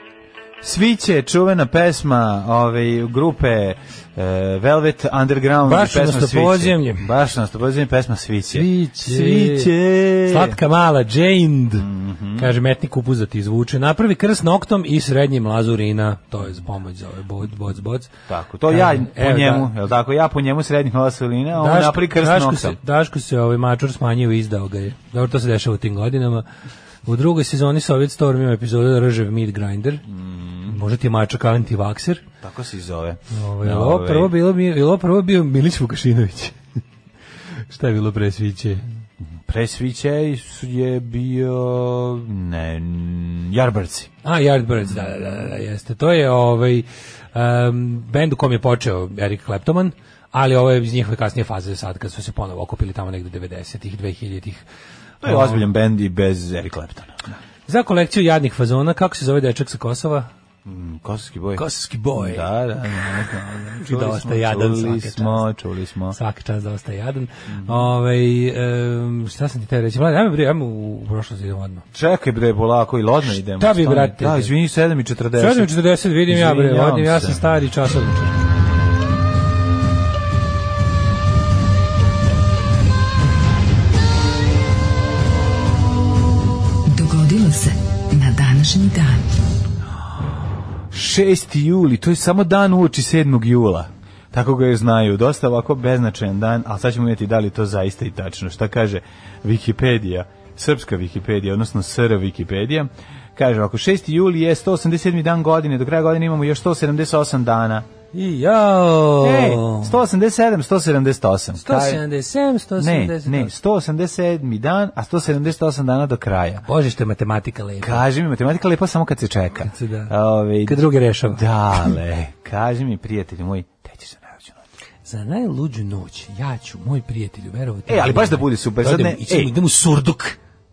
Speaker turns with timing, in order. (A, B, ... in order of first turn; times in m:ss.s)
0:00.6-0:10.6 A
0:05.6-0:07.0 B
0:08.5-0:09.7 B
0:10.2-0:18.1 B
0:11.8-0:12.5 A
0:18.3-0:22.8 A
0:18.7-0:19.7 B
0:21.6-0:26.4 B
0:27.0-0:30.0 B
0:30.1-0:30.8 A
0:30.7-0:32.2 B
0:32.4-0:34.3 A
0:33.3-0:36.6 B
0:37.7-0:38.8 B
0:39.2-0:44.1 A
0:44.2-0:54.6 B
0:55.2-0:57.3 A
0:55.2-0:55.6 B
0:57.7-1:00.3 B
1:00.6-1:06.2 A
1:01.6-1:02.5 B
1:03.8-1:05.4 B
1:06.1-1:11.8 B
1:07.5-1:07.9 A
1:11.9-1:17.4 A
1:13.3-1:14.5 B
1:15.4-1:18.4 B
1:26.9-1:29.2 C
1:30.9-1:47.8 A
1:48.1-1:50.0 B
1:49.2-1:52.0 A
1:51.6-1:53.5 B
1:52.8-1:56.6 A
1:56.6-1:58.0 B
1:57.8-2:04.6 A
1:59.6-2:00.1 B
2:00.6-2:02.0 B
2:05.0-2:10.4 B
2:07.9-2:09.5 A